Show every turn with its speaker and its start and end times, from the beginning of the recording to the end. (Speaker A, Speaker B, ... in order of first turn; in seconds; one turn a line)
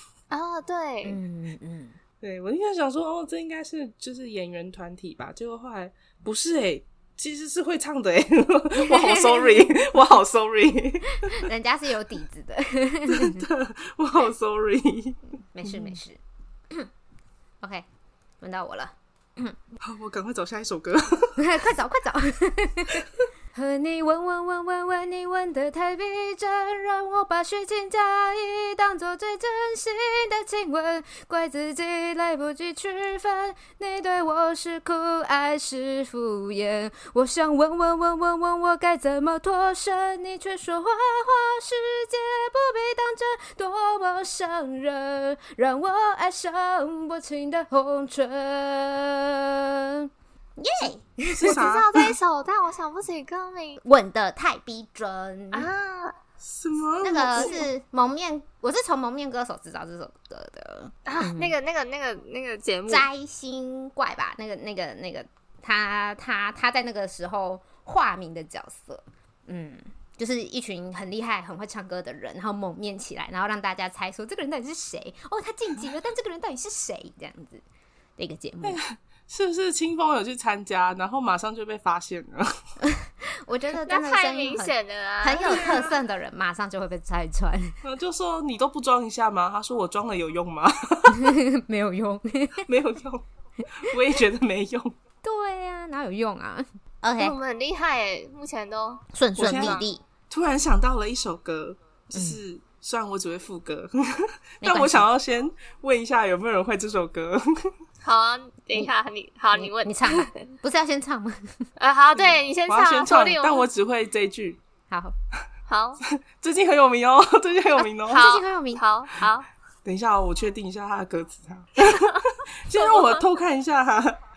Speaker A: 0.3-1.2
Speaker B: 1.0-2.0
Speaker C: 2.2-11.5
Speaker B: 8.8-9.8
Speaker B: 11.2-13.5
Speaker C: 13.1-16.0
Speaker B: 15.6-16.2
Speaker B: 17.6-17.9
Speaker B: 18.4-19.6
Speaker C: 19.8-21.5
Speaker B: 21.4-51.6
Speaker C: 50.8-52.1
Speaker A: 51.4-53.8
Speaker B: 53.8-55.7
Speaker A: 55.5-56.1
Speaker C: 56.4-57.6
Speaker B: 57.0-61.5
Speaker A: 57.1-57.6
Speaker A: 61.1-63.1
Speaker B: 62.9-77.6
Speaker B: 78.2-78.8
Speaker C: 78.6-82.5
Speaker B: 82.8-87.8
Speaker A: 83.9-85.9
Speaker C: 85.4-86.0
Speaker C: 87.8-91.4
Speaker B: 91.1-92.7
Speaker C: 92.7-93.2
Speaker C: 93.8-94.9
Speaker B: 95.2-97.4
Speaker A: 97.2-99.9
Speaker B: 99.1-100.0
Speaker C: 99.4-107.7
Speaker B: 102.1-102.4
Speaker B: 104.6-105.1
Speaker A: 108.0-110.5
Speaker B: 109.5-111.6
Speaker A: 111.8-113.7
Speaker C: 112.2-114.6
Speaker B: 114.9-115.2
Speaker A: 115.7-116.0
Speaker C: 116.1-118.3
Speaker B: 117.8-118.8
Speaker A: 118.1-119.5
Speaker C: 119.8-124.2
Speaker A: 122.7-123.2